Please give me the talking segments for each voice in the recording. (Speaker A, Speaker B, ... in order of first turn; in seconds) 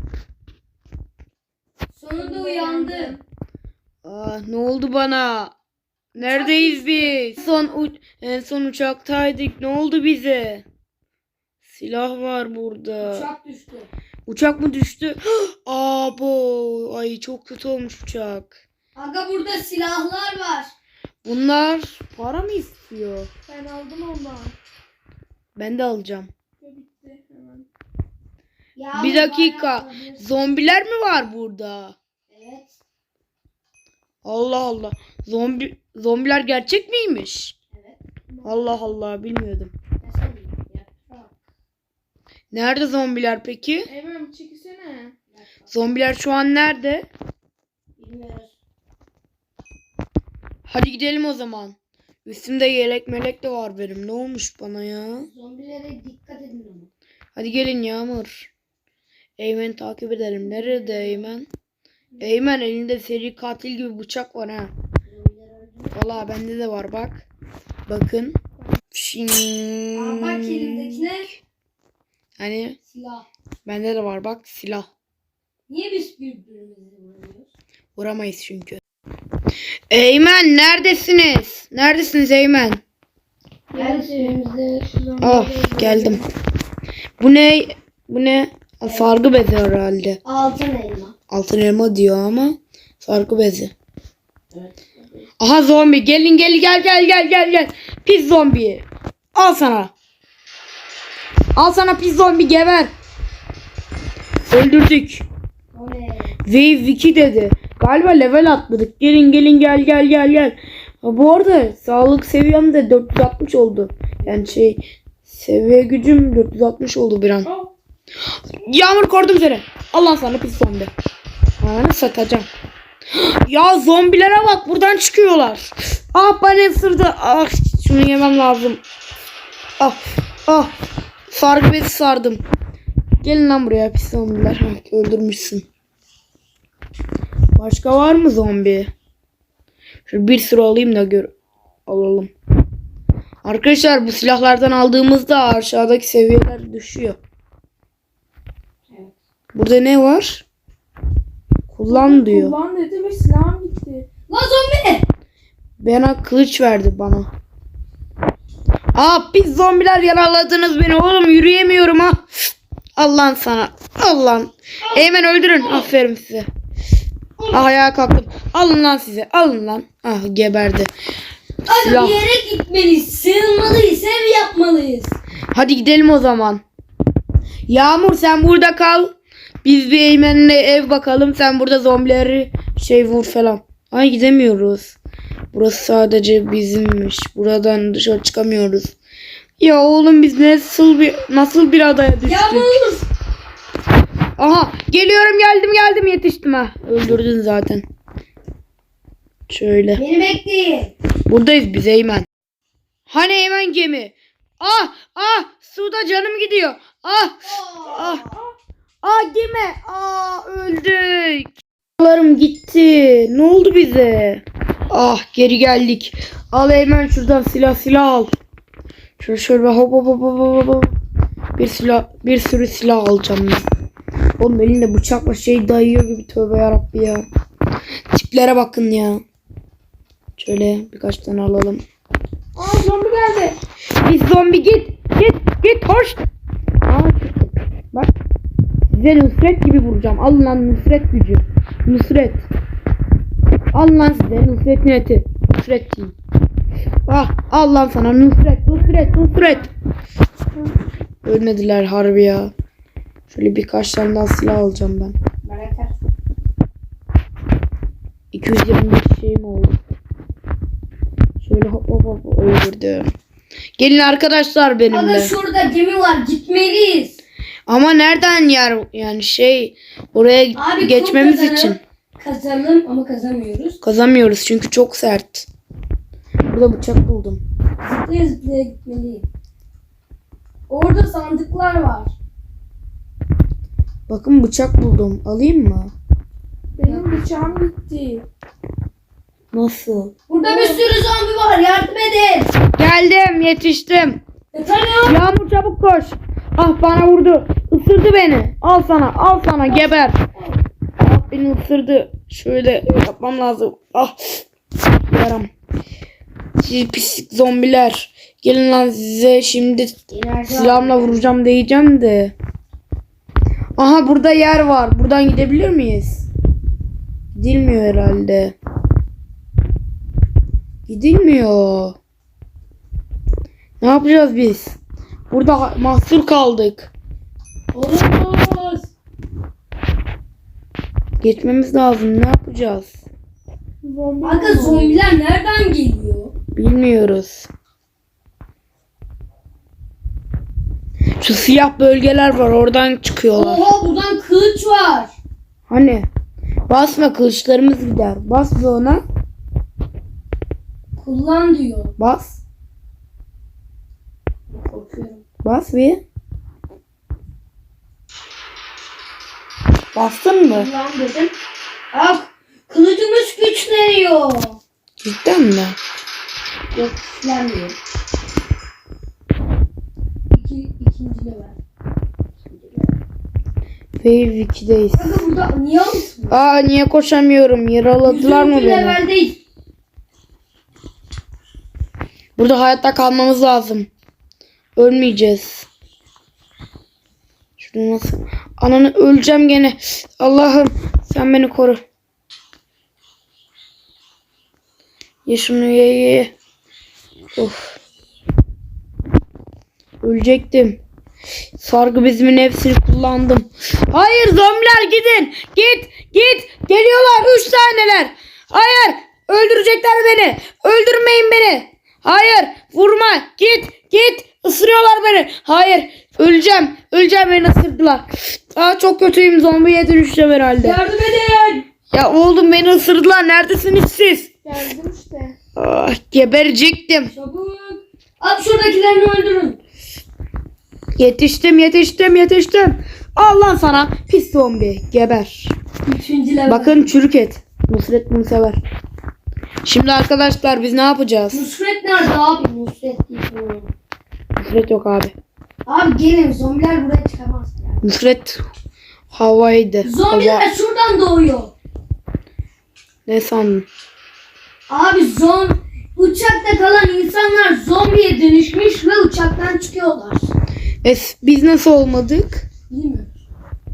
Speaker A: 1.9-3.2, 6.2-7.2, 13.0-13.9, 18.9-20.7, 28.8-30.2, 32.3-32.8, 40.0-41.3, 45.3-45.7, 48.0-48.5, 55.2-56.9, 60.5-61.3, 62.1-62.4, 65.1-66.2, 70.0-71.3, 72.9-73.3, 75.7-77.5, 83.8-84.9, 90.2-91.1, 105.7-106.4, 154.3-155.1, 165.6-165.9, 171.7-175.2, 192.2-193.1, 199.9-200.9, 207.4-208.4, 255.4-255.9, 264.9-267.2, 270.6-273.8, 277.8-279.3, 280.7-282.1, 286.8-287.6, 290.3-292.5, 294.5-295.2, 299.7-300.6, 310.1-311.3, 327.7-328.9, 334.2-336.3, 343.3-345.1, 351.0-351.9, 354.5-355.2, 360.5-361.3, 361.9-364.6, 366.7-367.8, 370.3-371.6, 372.5-372.9, 374.9-376.4, 378.0-379.4, 420.6-421.7, 427.1-429.6, 435.9-436.9, 441.3-443.7, 445.7-447.8, 449.8-451.5, 454.7-460.3, 462.7-463.1
Speaker B: 2.2-3.2, 23.5-24.6, 26.6-27.7, 38.4-38.7, 43.9-45.1, 83.7-86.2, 151.9-154.1, 232.6-233.6, 249.0-249.6, 286.8-288.2, 290.4-290.8, 333.8-335.0, 424.4-425.4
Speaker C: 4.0-5.5, 6.2-10.6, 11.7-13.3, 14.3-18.6, 21.2-23.3, 25.6-26.3, 29.0-32.0, 34.2-37.5, 38.5-39.7, 42.5-43.9, 45.7-47.1, 50.6-51.8, 52.3-55.3, 57.4-58.5, 59.4-61.5, 62.2-64.7, 66.0-67.2, 67.9-68.4, 68.9-71.1, 72.4-72.8, 73.7-74.9, 78.0-78.8, 79.9-82.8, 85.2-86.2, 87.2-90.2, 91.3-93.7, 95.4-99.9, 101.6-102.9, 104.5-105.2, 106.5-117.5, 118.6-120.9, 121.6-122.5, 123.1-128.8, 129.8-130.7, 131.3-132.4, 133.2-135.6, 137.6-138.9, 140.1-141.3, 141.9-142.3, 143.4-147.2, 149.5-150.4, 151.7-152.6, 155.8-157.3, 158.9-162.2, 163.0-166.5, 167.5-170.9, 171.7-172.2, 175.5-176.6, 177.7-179.1, 179.6-185.0, 185.5-188.9, 189.6-192.7, 194.4-197.8, 199.5-200.0, 201.3-202.3, 203.1-208.3, 209.0-218.3, 219.2-220.9, 221.6-223.6, 224.4-227.2, 228.1-229.2, 230.4-231.8, 234.0-236.2, 236.8-238.1, 238.9-242.5, 243.7-246.2, 247.1-249.7, 251.2-252.5, 253.3-255.2, 258.3-259.8, 261.4-263.1, 263.8-265.3, 267.7-271.8, 273.8-275.5, 276.5-277.4, 284.1-285.9, 289.5-290.1, 292.8-294.2, 295.1-300.2, 301.0-304.4, 305.1-305.5, 306.6-309.9, 310.5-312.3, 313.8-316.3, 317.3-318.6, 320.9-322.0, 323.8-324.8, 325.3-326.9, 331.2-333.0, 336.6-337.5, 341.2-343.7, 345.7-346.1, 346.7-349.0, 352.0-352.4, 355.4-356.0, 359.9-360.7, 365.0-365.8, 374.0-375.2, 376.3-379.0, 382.4-383.9, 384.8-385.7, 387.6-391.8, 395.3-396.3, 397.4-397.8, 400.0-400.8, 401.6-420.8, 421.9-424.3, 425.6-427.1, 431.0-435.5, 436.5-438.6, 439.6-441.4, 444.4-445.1, 447.8-448.4, 449.1-450.5, 453.1-453.7, 460.8-462.4